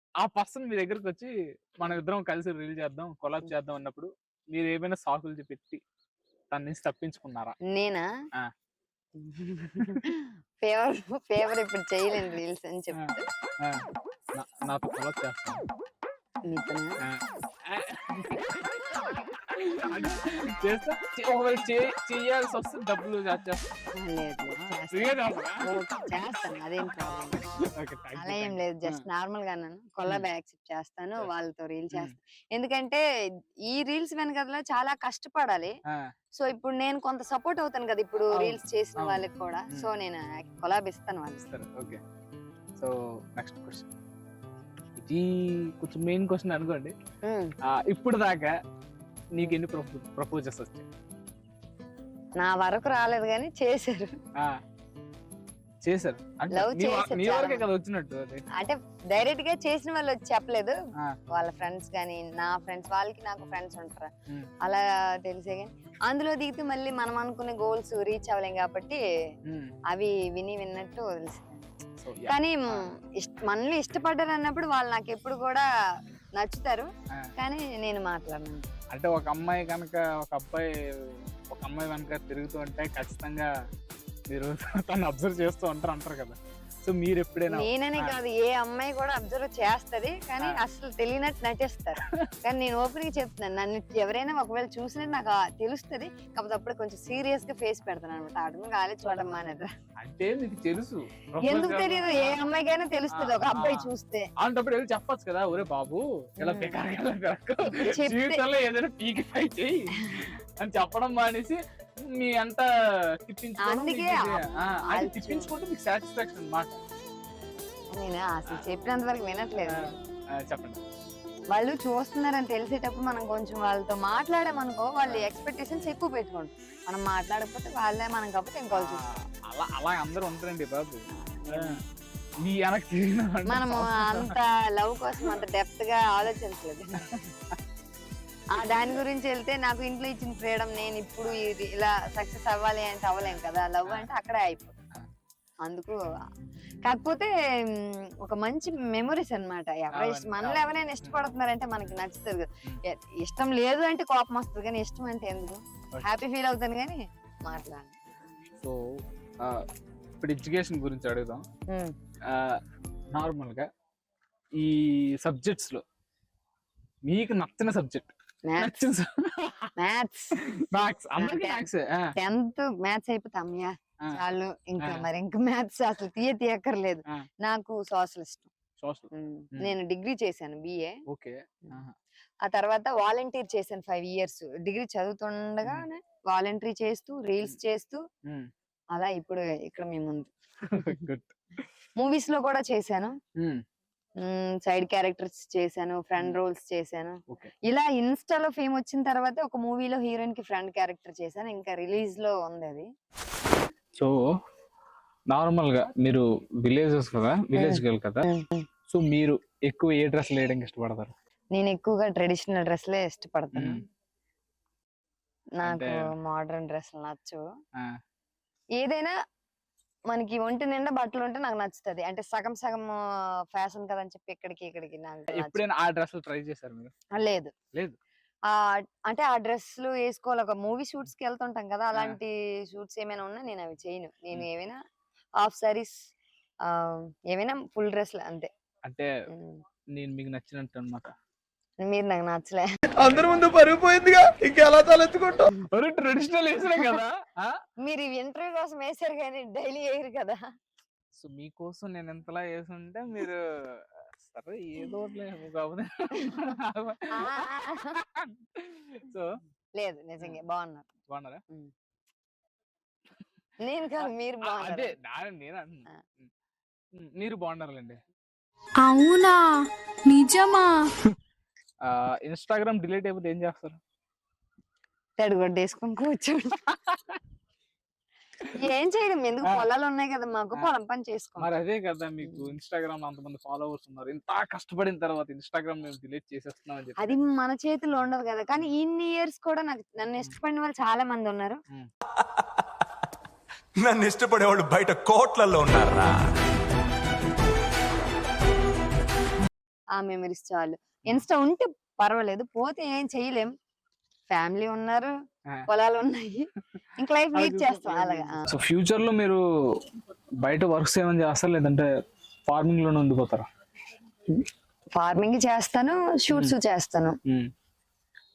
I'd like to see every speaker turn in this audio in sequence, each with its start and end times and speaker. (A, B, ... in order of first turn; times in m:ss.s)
0:00.2-0:05.8 A
0:06.5-0:07.6 A
0:07.7-0:08.0 B
0:09.2-0:13.2 B
0:14.4-0:15.6 A
0:16.4-0:16.9 B
0:17.0-0:23.7 A
0:24.0-0:27.4 B
0:24.6-0:25.7 A
0:27.7-0:29.0 A
0:28.2-0:33.0 B
0:33.6-0:35.8 B
0:36.4-0:41.4 B
0:38.3-0:39.9 A
0:41.4-0:42.0 A
0:42.8-0:43.9 A
0:45.0-0:46.9 A
0:47.2-0:47.5 B
0:47.6-0:48.5 A
0:49.3-0:50.9 A
0:52.4-0:54.2 B
0:55.8-0:58.4 A
0:56.5-0:57.6 B
0:58.6-1:00.8 B
1:01.3-1:09.0 B
1:09.5-1:09.7 A
1:09.9-1:11.7 B
1:12.0-1:12.8 A
1:12.3-1:15.7 B
1:16.4-1:18.7 B
1:18.9-1:23.5 A
1:24.3-1:28.2 A
1:27.5-1:39.7 B
1:40.0-1:42.4 A
1:41.4-1:44.3 B
1:43.1-1:52.7 A
1:46.4-1:46.8 B
1:47.7-1:48.4 B
1:53.2-1:56.8 A
1:53.6-1:55.5 B
1:57.9-1:59.9 B
1:59.7-2:00.8 A
2:01.5-2:09.0 B
2:05.0-2:05.9 A
2:08.7-2:11.0 A
2:11.1-2:11.8 B
2:11.5-2:11.8 A
2:12.4-2:14.3 A
2:13.5-2:17.1 B
2:17.0-2:17.6 A
2:18.5-2:24.8 B
2:23.2-2:24.0 A
2:25.6-2:26.1 B
2:26.8-2:38.0 B
2:29.9-2:31.2 A
2:38.6-2:39.6 A
2:40.2-2:41.4 A
2:41.7-2:41.9 B
2:42.3-2:42.6 A
2:43.1-2:43.7 A
2:44.6-2:45.8 A
2:47.1-2:49.7 A
2:48.4-2:48.8 B
2:49.8-2:50.3 B
2:50.4-2:52.1 A
2:51.2-2:51.6 B
2:52.2-2:58.5 B
2:58.8-2:59.7 A
2:59.1-3:01.0 B
3:01.1-3:01.9 A
3:02.4-3:08.0 B
3:08.9-3:10.9 B
3:10.7-3:11.4 A
3:12.0-3:13.2 B
3:13.4-3:13.6 A
3:14.2-3:22.9 B
3:24.0-3:24.4 A
3:25.3-3:28.2 A
3:27.6-3:28.7 B
3:28.9-3:31.1 A
3:31.5-3:33.8 B
3:33.5-3:33.8 A
3:35.6-3:37.4 B
3:35.6-3:36.0 A
3:38.8-3:39.1 B
3:40.1-3:43.0 B
3:43.5-3:45.6 B
3:45.3-3:46.9 A
3:47.1-3:47.5 B
3:48.5-3:54.8 B
3:55.4-3:56.0 B
3:56.6-3:58.5 B
3:58.8-3:59.1 A
3:59.3-3:59.6 B
3:59.9-4:01.1 A
4:01.8-4:02.7 B
4:03.0-4:05.4 C
4:03.7-4:04.2 D
4:05.7-4:07.5 A
4:07.8-4:10.5 B
4:11.2-4:19.3 A
4:17.1-4:18.0 B
4:19.8-4:20.9 B
4:21.1-4:21.4 A
4:23.6-4:24.9 B
4:24.0-4:26.3 A
4:26.9-4:28.0 A
4:28.8-4:30.9 E
4:31.8-4:33.8 A
4:35.2-4:36.6 B
4:38.5-4:41.5 B
4:41.4-4:47.2 A
4:47.0-4:51.6 B
4:53.8-4:56.2 D
5:00.0-5:03.5 B
5:04.3-5:05.1 B
5:05.7-5:08.5 B
5:07.3-5:09.8 A
5:10.4-5:11.9 A
5:12.5-5:13.5 A
5:14.3-5:17.2 B